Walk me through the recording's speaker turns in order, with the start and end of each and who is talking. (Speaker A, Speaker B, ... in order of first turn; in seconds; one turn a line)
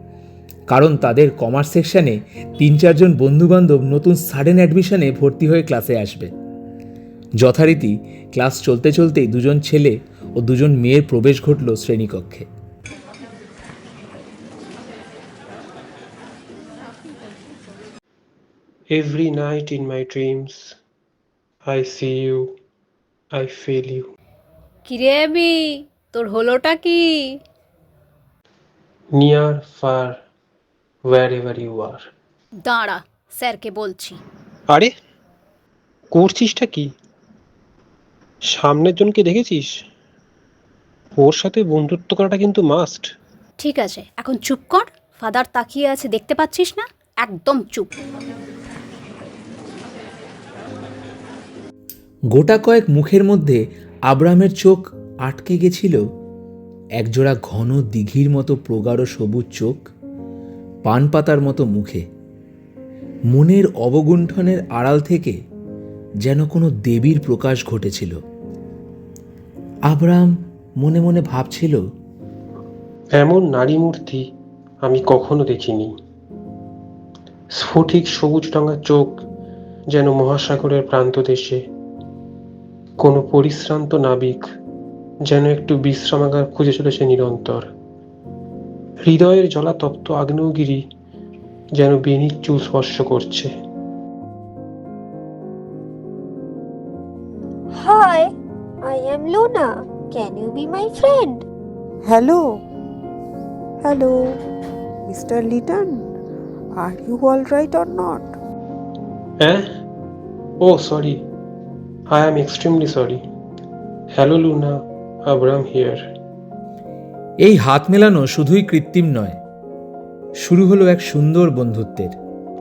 Speaker A: 0.7-6.3
Speaker A: 7.4-12.5
Speaker B: 18.9-20.7
Speaker B: 21.6-22.5
Speaker B: 23.3-24.1
Speaker C: 24.9-27.4
Speaker B: 29.1-30.2
Speaker B: 31.1-32.1
Speaker C: 32.6-34.2
Speaker B: 36.1-36.9
Speaker B: 38.5-39.7
Speaker B: 41.2-43.1
Speaker C: 43.6-47.9
Speaker A: 52.3-56.0
Speaker A: 57.0-59.9
Speaker A: 60.9-62.0
Speaker A: 63.3-65.4
Speaker A: 66.2-68.1
Speaker A: 69.9-71.8
Speaker B: 73.2-74.2
Speaker B: 74.8-75.9
Speaker B: 77.5-79.2
Speaker B: 79.9-81.6
Speaker B: 83.0-84.4
Speaker B: 85.3-87.7
Speaker B: 89.0-90.8
Speaker B: 91.8-93.5
Speaker D: 97.7-101.4
Speaker E: 102.0-102.6
Speaker E: 103.8-104.3
Speaker E: 105.1-106.0
Speaker E: 106.8-108.3
Speaker B: 110.6-111.2
Speaker B: 112.1-113.2
Speaker B: 114.1-114.7
Speaker B: 115.2-116.0
Speaker A: 117.4-119.4
Speaker A: 120.4-122.1